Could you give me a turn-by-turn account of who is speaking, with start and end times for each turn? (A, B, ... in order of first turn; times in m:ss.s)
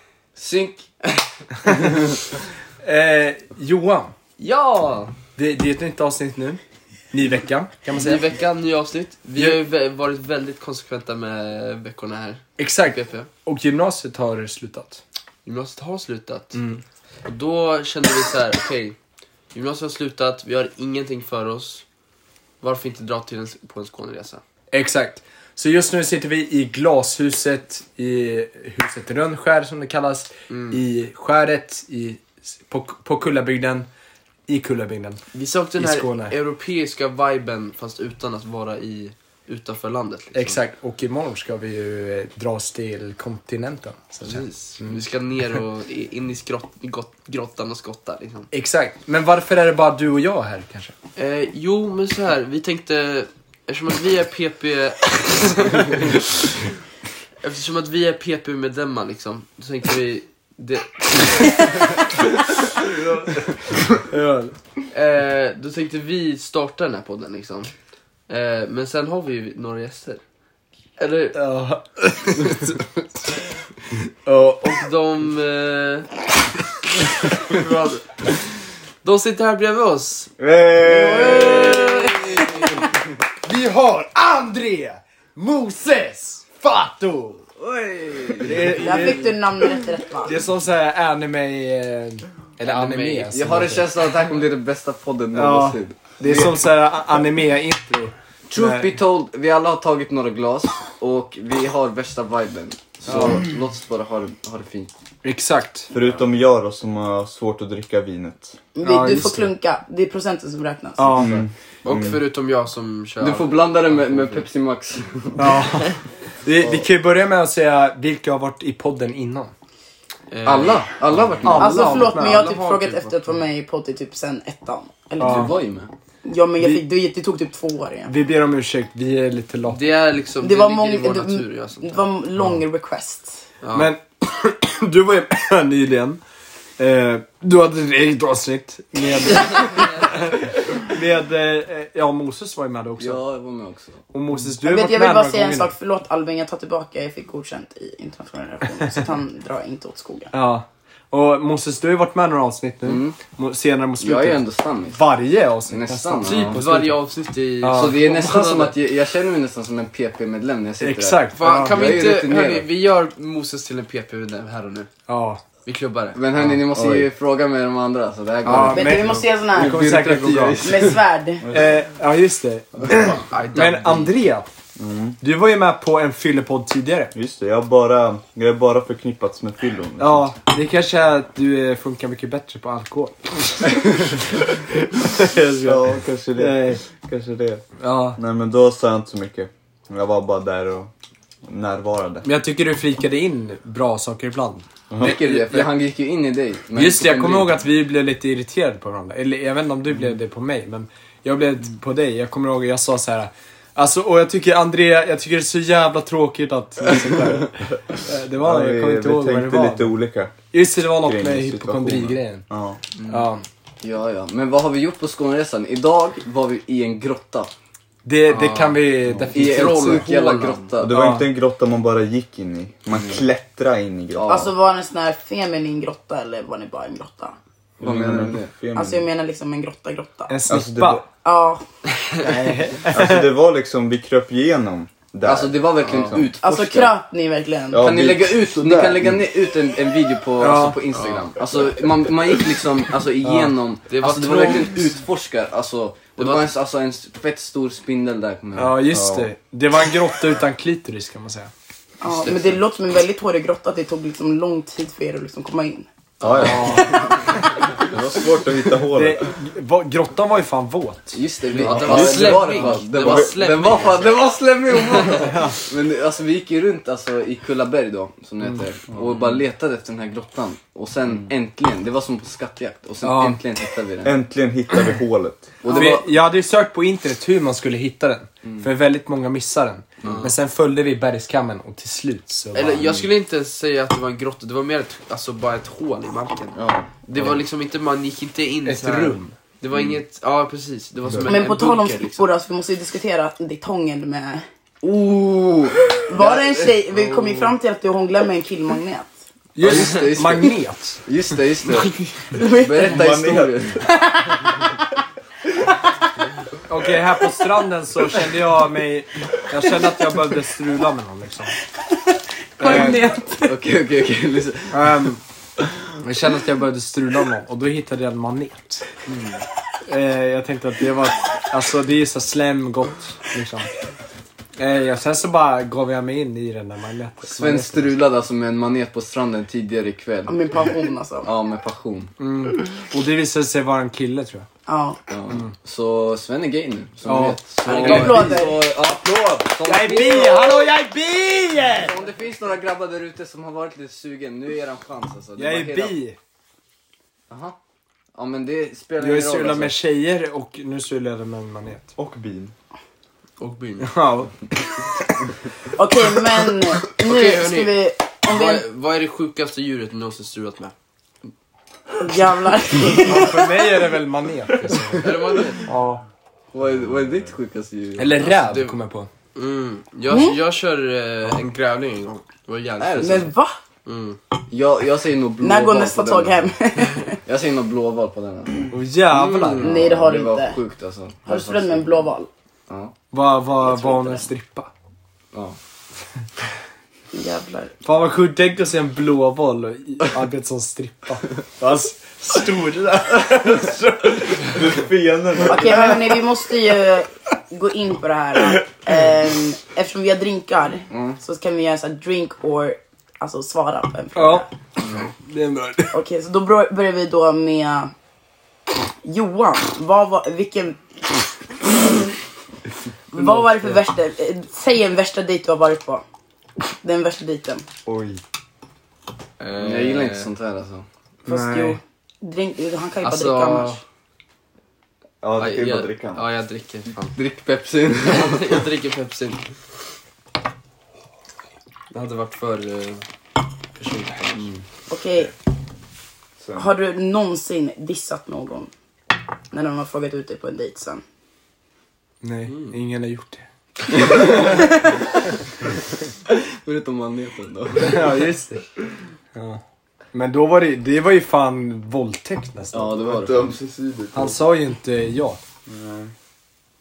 0:00.4-0:01.3 A
0:01.7-0:02.1 B
0:02.8-0:04.2 B
0:04.4-0:05.1 A
0:05.4-0:06.6 B
0:07.1-0:08.2 B
0:08.0-0:13.3 A
0:12.6-0:15.0 B
0:15.4-0:16.6 A
0:16.6-0:16.8 B
0:17.2-0:19.0 A
0:19.5-0:21.8 A
0:22.6-0:24.4 A
0:24.7-0:33.9 B
0:30.5-0:30.8 A
0:34.5-0:35.2 B
0:35.3-0:40.6 A
0:35.8-0:36.4 B
0:40.3-0:45.0 B
0:44.2-0:48.5 A
0:48.5-0:51.0 B
0:51.2-0:56.5 A
0:57.4-1:02.1 A
1:04.1-1:04.6 B
1:04.9-1:07.7 A
1:08.3-1:10.2 A
1:11.0-1:11.4 A
1:11.3-1:12.8 B
1:14.2-1:14.7 B
1:14.6-1:16.4 A
1:17.3-1:20.3 A
1:20.4-1:22.0 C
1:20.9-1:21.9 D
1:20.9-1:22.8 A
1:23.4-1:27.5 B
1:27.6-1:29.1 E
1:28.4-1:29.3 B
1:28.8-1:30.4 D
1:30.2-1:33.9 B
1:32.6-1:33.4 A
1:33.3-1:36.4 E
1:35.3-1:38.9 B
1:38.5-1:44.9 E
1:43.1-1:43.4 B
1:45.2-1:45.9 B
1:45.9-1:48.6 C
1:48.8-1:51.3 D
1:48.8-1:49.5 B
1:51.0-1:51.5 B
1:51.2-1:52.2 C
1:51.8-1:54.4 A
1:53.2-1:55.6 E
1:55.4-1:59.5 B
2:00.3-2:00.9 A
2:00.4-2:02.1 E
2:01.4-2:02.5 B
2:01.6-2:05.6 D
2:01.6-2:03.3 A
2:05.2-2:05.5 B
2:05.2-2:05.9 E
2:06.2-2:08.1 D
2:08.1-2:09.8 B
2:09.7-2:12.0 A
2:10.4-2:13.4 D
2:13.6-2:13.9 A
2:13.7-2:16.2 B
2:16.8-2:23.2 B
2:23.0-2:24.0 E
2:24.1-2:25.7 B
2:24.6-2:30.3 D
2:30.3-2:37.0 B
2:32.8-2:33.2 E
2:34.0-2:35.0 E
2:35.7-2:36.6 E
2:36.2-2:38.8 A
2:37.6-2:38.2 B
2:37.7-2:42.7 E
2:40.8-2:42.0 B
2:41.3-2:44.9 A
2:45.1-2:45.4 B
2:45.6-2:46.2 A
2:46.2-2:51.0 E
2:46.8-2:47.0 B
2:48.4-2:50.9 B
2:48.6-2:50.0 D
2:50.6-2:51.5 D
2:51.4-2:51.8 C
2:51.5-2:54.5 B
2:53.3-2:54.2 A
2:54.8-2:55.2 C
2:55.2-2:57.1 B
2:57.1-3:00.3 C
3:00.0-3:06.8 B
3:05.5-3:10.9 C
3:07.8-3:08.2 B
3:11.4-3:12.3 C
3:12.2-3:15.7 B
3:14.9-3:15.2 C
3:15.0-3:17.5 E
3:16.7-3:30.0 B
3:28.4-3:32.8 C
3:30.5-3:32.4 B
3:33.0-3:33.2 A
3:33.1-3:33.4 B
3:33.8-3:37.5 E
3:38.0-3:40.1 B
3:38.3-3:40.7 A
3:39.3-3:41.1 E
3:40.8-3:44.5 C
3:40.8-3:41.3 B
3:44.2-3:44.5 E
3:44.3-3:47.4 D
3:47.8-3:48.5 E
3:47.8-3:49.1 C
3:48.8-3:50.4 D
3:50.3-3:51.0 B
3:50.5-3:51.1 C
3:51.2-3:51.6 D
3:52.2-3:53.3 B
3:52.8-3:56.3 C
3:55.2-3:57.0 E
3:56.4-3:57.8 D
3:57.7-3:59.2 C
3:57.8-4:08.9 E
4:00.4-4:00.8 B
4:00.9-4:01.3 A
4:03.2-4:03.6 B
4:03.9-4:04.9 A
4:06.2-4:06.5 A
4:08.6-4:11.5 B
4:08.9-4:09.3 C
4:12.0-4:15.9 D
4:12.1-4:12.5 E
4:16.2-4:16.9 C
4:16.3-4:16.9 E
4:16.4-4:16.9 B
4:16.5-4:17.1 D
4:17.9-4:19.3 C
4:17.9-4:18.3 E
4:18.9-4:22.7 B
4:21.1-4:34.2 E
4:21.6-4:24.3 A
4:21.8-4:22.4 C
4:23.0-4:23.3 C
4:25.2-4:25.6 B
4:33.0-4:33.4 B
4:34.0-4:35.5 C
4:35.6-4:36.1 E
4:35.7-4:43.1 B
4:40.0-4:40.3 A
4:42.5-4:46.6 A
4:46.6-4:47.3 E
4:47.1-4:52.3 A
4:48.6-4:49.3 B
4:51.2-4:54.5 D
4:54.8-4:56.3 E
4:56.1-4:59.2 D
4:59.6-5:01.0 B
4:59.6-5:03.9 E
5:02.3-5:03.0 D
5:02.8-5:03.7 C
5:03.8-5:04.6 D
5:06.7-5:11.5 B
5:12.6-5:13.6 D
5:12.6-5:13.0 B
5:12.7-5:15.1 E
5:14.7-5:15.2 B
5:16.0-5:18.9 B
5:19.1-5:19.4 E
5:19.9-5:23.7 B
5:24.6-5:28.0 B
5:27.2-5:30.4 E
5:30.3-5:31.3 D
5:31.2-5:32.1 E
5:32.2-5:34.5 B
5:34.7-5:35.0 D
5:35.1-5:40.5 E
5:37.0-5:38.4 B
5:37.7-5:38.7 D
5:37.7-5:38.1 A
5:39.6-5:42.0 B
5:41.8-5:46.0 E
5:45.4-5:46.2 B
5:47.3-5:47.6 E
5:48.1-5:49.8 E
5:49.0-5:51.9 B
5:52.0-5:52.5 C
5:53.4-5:53.9 A
5:53.8-5:54.3 B
5:55.8-5:58.6 D
5:57.0-6:00.7 A
6:02.0-6:03.6 D
6:03.0-6:06.0 B
6:05.0-6:05.7 A
6:06.5-6:08.2 E
6:08.0-6:09.1 B
6:08.2-6:08.8 A
6:09.3-6:13.3 A
6:10.1-6:10.4 D
6:12.8-6:13.2 E
6:13.0-6:13.6 D
6:13.8-6:14.2 A
6:14.5-6:16.6 E
6:15.4-6:17.2 D
6:17.1-6:18.7 E
6:18.7-6:19.8 B
6:19.1-6:19.6 A
6:19.4-6:22.0 E
6:19.6-6:20.6 D
6:21.3-6:22.3 D
6:22.7-6:23.0 E
6:23.1-6:24.7 B
6:23.6-6:24.3 D
6:27.1-6:27.7 D
6:27.8-6:34.6 B
6:34.4-6:36.0 C
6:35.5-6:44.5 D
6:40.9-6:41.2 E
6:44.2-6:44.5 B
6:45.1-6:46.0 B
6:45.9-6:47.9 D
6:49.0-6:50.9 D
6:53.1-6:56.0 D
6:53.2-6:53.8 B
6:56.6-6:57.7 D
6:57.9-6:58.2 C
6:59.4-7:00.3 A
6:59.6-7:00.9 E
7:01.3-7:01.8 B
7:01.3-7:03.8 D
7:03.0-7:03.8 A
7:05.2-7:06.2 C
7:05.4-7:07.2 A
7:07.2-7:08.6 E
7:08.0-7:09.5 A
7:11.9-7:13.0 A
7:13.8-7:14.5 A
7:13.9-7:14.4 B
7:14.9-7:15.3 D
7:16.4-7:16.7 C
7:16.6-7:18.7 D
7:19.5-7:21.0 D
7:22.2-7:24.8 B
7:24.1-7:24.6 E
7:26.3-7:28.3 E
7:27.8-7:28.6 B
7:29.3-7:29.6 B
7:30.1-7:33.1 B
7:32.7-7:33.5 E
7:33.1-7:34.5 C
7:34.1-7:35.4 B
7:35.7-7:36.1 C